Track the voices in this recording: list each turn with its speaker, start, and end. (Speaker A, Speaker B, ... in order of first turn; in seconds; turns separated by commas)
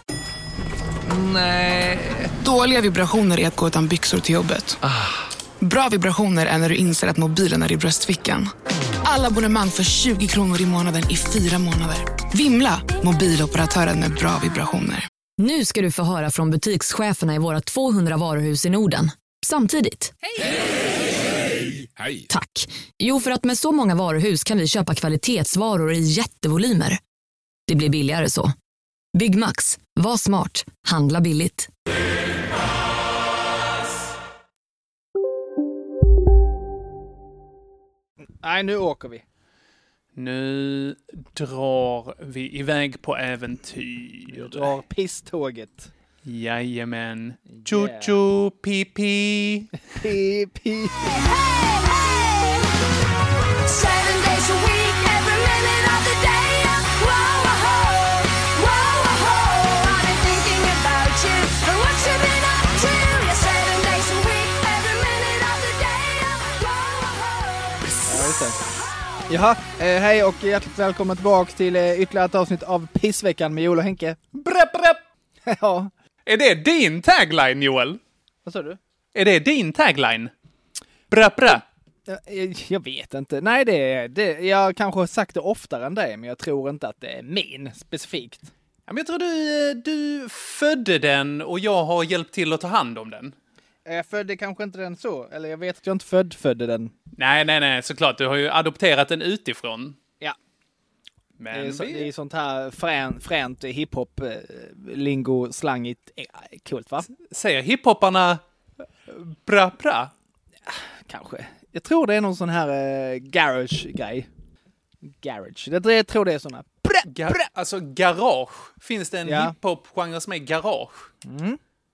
Speaker A: 1.0-4.8, Speaker A: 5.6-8.5, Speaker A: 9.0-15.1, Speaker B: 15.4-20.1, Speaker B: 22.3-27.0, Speaker B: 27.7-28.5, Speaker B: 29.1-31.7, Speaker C: 38.4-39.2, Speaker D: 40.1-44.7, Speaker C: 44.3-45.9, Speaker D: 46.2-49.7, Speaker C: 47.5-48.2, Speaker C: 49.9-51.1, Speaker E: 51.0-52.6, Speaker E: 53.6-68.5, Speaker C: 68.0-68.6, Speaker C: 69.3-74.8, Speaker D: 74.4-75.0, Speaker C: 75.5-75.9, Speaker D: 76.2-78.0, Speaker C: 78.4-78.8, Speaker D: 79.1-80.3, Speaker D: 81.1-81.6, Speaker C: 82.1-88.5, Speaker D: 88.9-93.3, Speaker C: 93.8-96.9, Speaker D: 97.2-100.0, Speaker D: 101.4-102.1, Speaker C: 101.5-107.1, Speaker D: 107.2-108.4, Speaker D: 109.1-110.1, Speaker C: 110.7-114.3, Speaker C: 115.2-117.5, Speaker D: 117.1-121.1, Speaker C: 119.2-119.5, Speaker C: 121.2-121.6